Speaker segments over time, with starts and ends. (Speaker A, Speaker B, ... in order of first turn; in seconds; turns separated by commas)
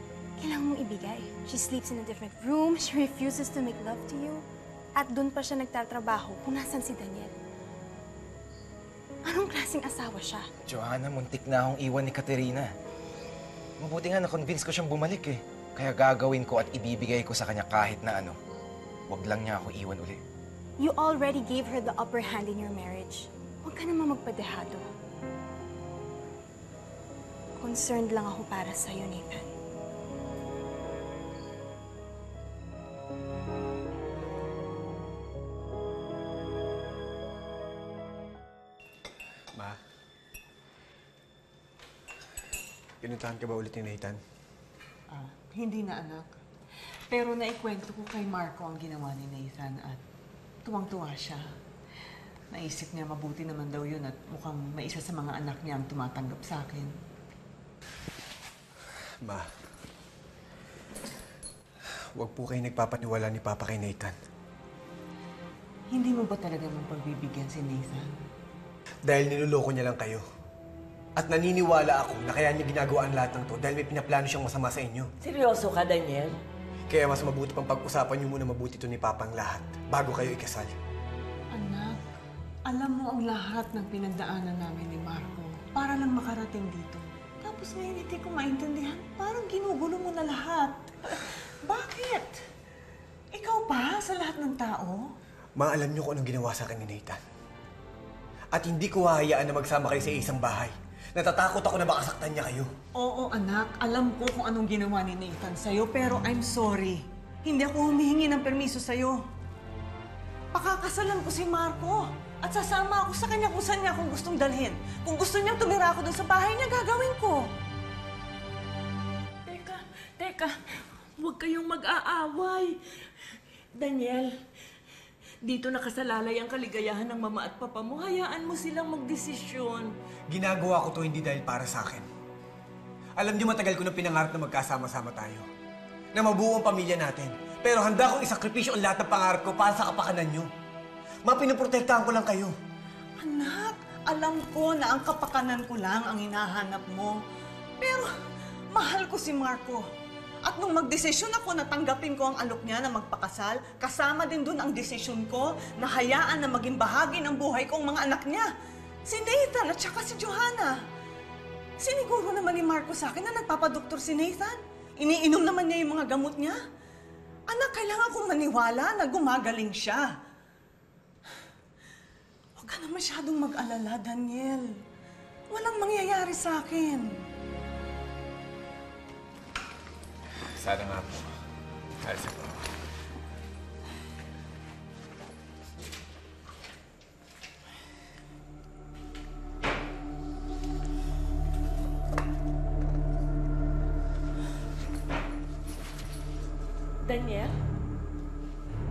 Speaker A: 0.4-4.4, Speaker A: 5.0-7.3, Speaker A: 9.3-10.5, Speaker B: 10.7-12.7, Speaker B: 13.8-18.4, Speaker B: 19.1-20.2, Speaker A: 20.8-24.9, Speaker A: 27.6-29.5, Speaker C: 43.0-44.2, Speaker D: 45.1-46.3, Speaker D: 47.1-50.0, Speaker D: 50.6-51.4, Speaker D: 52.5-56.9, Speaker C: 62.2-64.1, Speaker D: 65.9-68.2, Speaker C: 69.1-70.2, Speaker C: 71.2-75.1, Speaker E: 75.2-76.3, Speaker C: 76.9-80.8, Speaker D: 81.5-82.0, Speaker D: 82.7-92.4, Speaker D: 93.3-95.1, Speaker C: 95.6-97.2, Speaker C: 98.5-102.7, Speaker D: 103.0-109.2, Speaker D: 110.5-117.5, Speaker E: 119.5-120.5, Speaker E: 121.2-122.7, Speaker E: 123.8-124.3, Speaker E: 125.5-129.9, Speaker C: 130.3-132.1, Speaker C: 133.2-135.5, Speaker C: 136.1-140.5, Speaker C: 141.2-142.6, Speaker D: 143.2-147.2, Speaker D: 147.8-148.1, Speaker D: 148.7-149.8, Speaker D: 150.5-158.5, Speaker D: 159.1-160.8, Speaker D: 161.8-166.6, Speaker D: 167.5-170.1, Speaker D: 172.6-174.7, Speaker D: 175.5-177.1, Speaker C: 180.5-181.3, Speaker C: 182.0-182.7, Speaker E: 197.1-197.5